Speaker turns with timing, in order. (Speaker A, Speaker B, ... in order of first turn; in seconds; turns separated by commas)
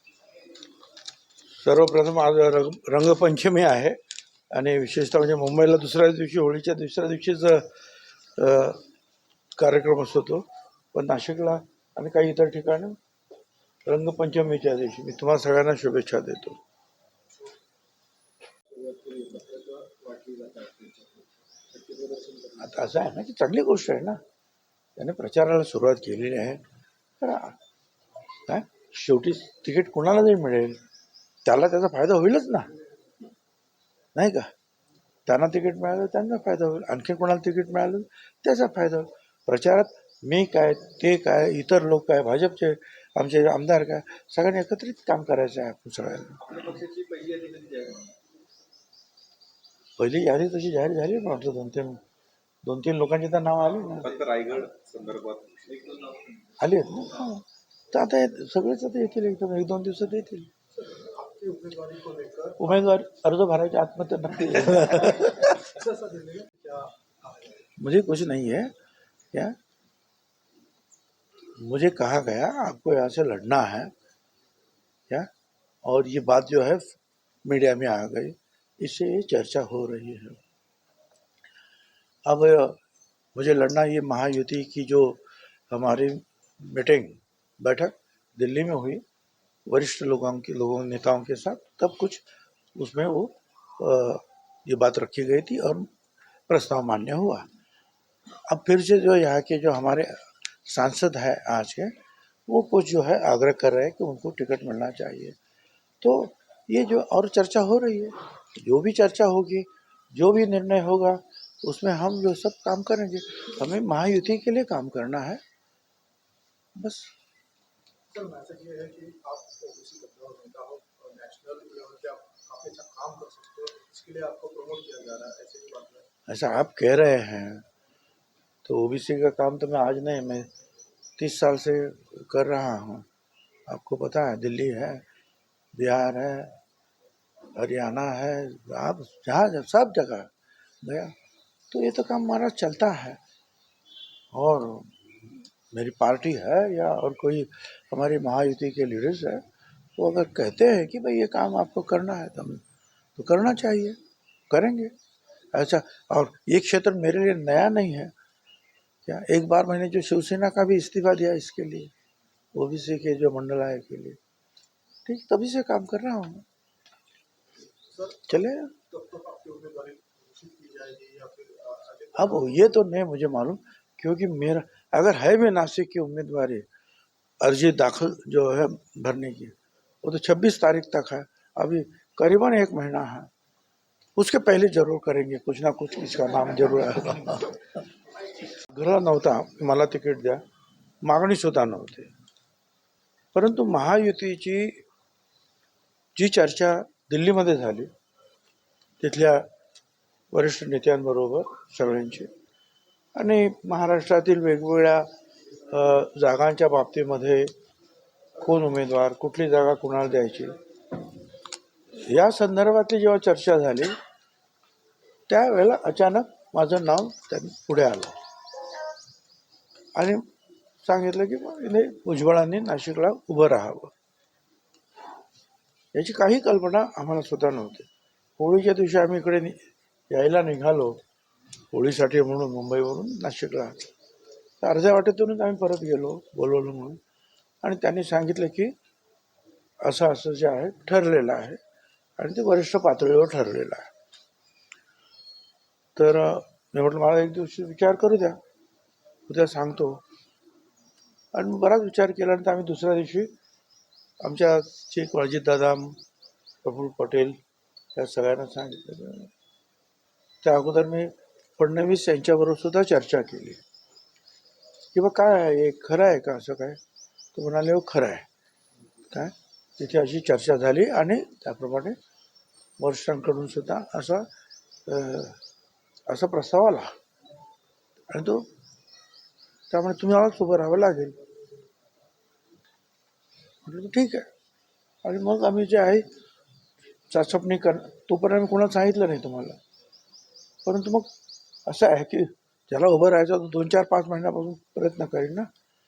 Speaker A: 1.6-4.0, Speaker A: 4.5-7.7, Speaker A: 8.3-8.8, Speaker A: 9.6-13.0, Speaker A: 13.8-16.6, Speaker B: 18.7-22.6, Speaker A: 22.6-24.2, Speaker A: 25.0-26.6, Speaker A: 27.2-27.5, Speaker A: 28.4-30.8, Speaker A: 31.4-32.7, Speaker A: 34.1-34.5, Speaker A: 35.2-46.4, Speaker C: 46.4-48.1, Speaker A: 50.0-52.0, Speaker A: 52.6-54.1, Speaker C: 53.7-56.4, Speaker A: 56.6-60.5, Speaker B: 60.8-62.8, Speaker A: 62.6-65.7, Speaker B: 65.2-67.7, Speaker A: 67.8-68.7, Speaker A: 71.5-73.9, Speaker A: 75.8-80.4, Speaker A: 82.3-82.8, Speaker A: 83.3-89.0, Speaker A: 89.7-92.2, Speaker A: 92.8-95.9, Speaker A: 96.5-97.5, Speaker A: 98.5-100.1, Speaker A: 100.7-101.9, Speaker A: 102.5-105.4, Speaker A: 106.0-115.4, Speaker A: 116.8-117.1, Speaker B: 118.1-126.0, Speaker A: 126.3-127.6, Speaker A: 128.6-130.5, Speaker A: 131.2-133.1, Speaker A: 133.7-135.0, Speaker A: 135.8-136.5, Speaker A: 137.5-140.3, Speaker A: 140.8-141.1, Speaker A: 141.7-143.2, Speaker A: 144.3-149.4, Speaker A: 150.0-152.6, Speaker A: 153.2-154.0, Speaker A: 154.5-154.9, Speaker A: 155.5-158.1, Speaker A: 159.1-161.9, Speaker A: 162.5-164.2, Speaker A: 165.0-166.4, Speaker B: 167.9-172.6, Speaker A: 168.3-168.7, Speaker A: 172.2-176.7, Speaker A: 177.4-183.3, Speaker A: 184.2-187.7, Speaker A: 188.6-190.4, Speaker A: 191.0-192.1, Speaker A: 193.3-194.8, Speaker A: 196.2-197.9, Speaker A: 199.0-199.4, Speaker A: 200.3-202.3, Speaker A: 203.1-205.1, Speaker A: 205.7-207.5, Speaker A: 208.4-210.6, Speaker A: 211.9-213.9, Speaker A: 215.3-218.2, Speaker A: 219.9-220.2, Speaker A: 220.8-223.9, Speaker A: 225.9-229.6, Speaker A: 230.1-231.0, Speaker A: 231.7-233.9, Speaker A: 234.6-237.0, Speaker A: 237.6-238.7, Speaker A: 239.8-241.6, Speaker A: 242.2-243.9, Speaker A: 245.9-248.4, Speaker A: 249.3-250.0, Speaker A: 251.3-253.3, Speaker A: 254.2-256.0, Speaker A: 256.6-257.4, Speaker A: 257.9-259.3, Speaker A: 260.4-263.6, Speaker A: 264.9-266.8, Speaker A: 267.3-268.3, Speaker A: 269.1-271.9, Speaker A: 272.8-274.3, Speaker A: 274.9-275.4, Speaker A: 276.1-276.9, Speaker A: 278.1-278.4, Speaker A: 279.7-281.1, Speaker A: 283.6-284.3, Speaker A: 285.0-286.0, Speaker A: 287.1-289.6, Speaker A: 290.6-291.1, Speaker A: 291.6-295.5